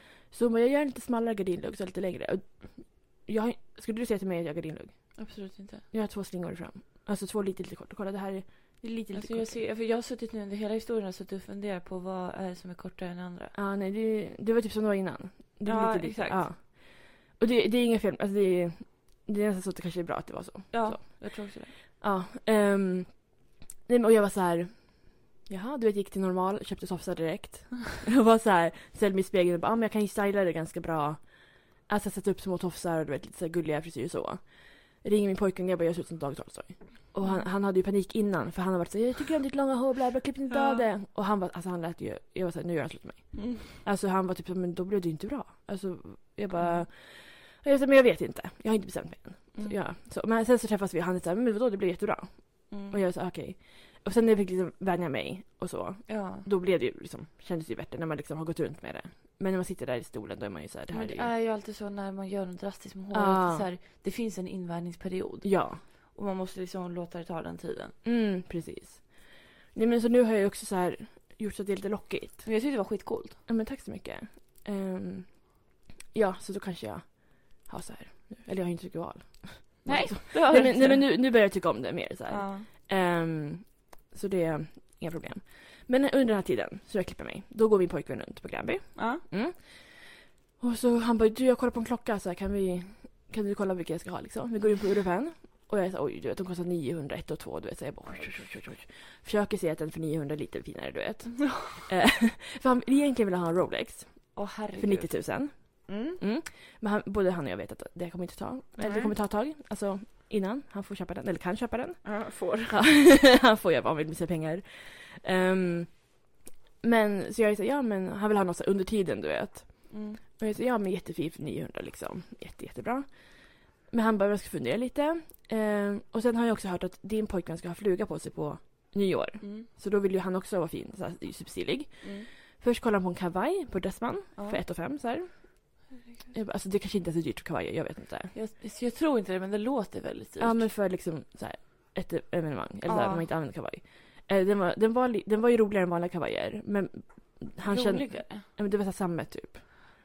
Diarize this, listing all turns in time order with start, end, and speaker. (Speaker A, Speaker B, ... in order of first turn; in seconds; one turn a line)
Speaker A: 0.3-5.2
Speaker B: 5.2-5.8
Speaker A: 5.9-9.6
Speaker B: 9.1-13.5
Speaker A: 13.5-61.3
Speaker B: 15.6-16.4
Speaker B: 20.7-21.7
Speaker B: 40.5-40.8
Speaker B: 43.3-43.7
Speaker B: 46.6-46.8
Speaker B: 52.7-53.0
Speaker B: 56.1-56.5
Speaker B: 60.9-68.0
Speaker A: 63.1-63.7
Speaker A: 65.4-65.8
Speaker A: 68.0-72.5
Speaker B: 72.4-73.4
Speaker A: 73.5-116.2
Speaker B: 79.8-81.1
Speaker B: 82.3-82.7
Speaker B: 89.0-89.2
Speaker B: 104.3-106.2
Speaker B: 108.8-109.1
Speaker B: 112.0-112.7
Speaker A: 116.8-135.7
Speaker B: 119.9-120.2
Speaker B: 129.4-129.7
Speaker B: 132.0-132.3
Speaker A: 136.3-138.3
Speaker B: 138.3-140.7
Speaker A: 140.4-149.6
Speaker B: 142.8-143.3
Speaker B: 147.6-148.4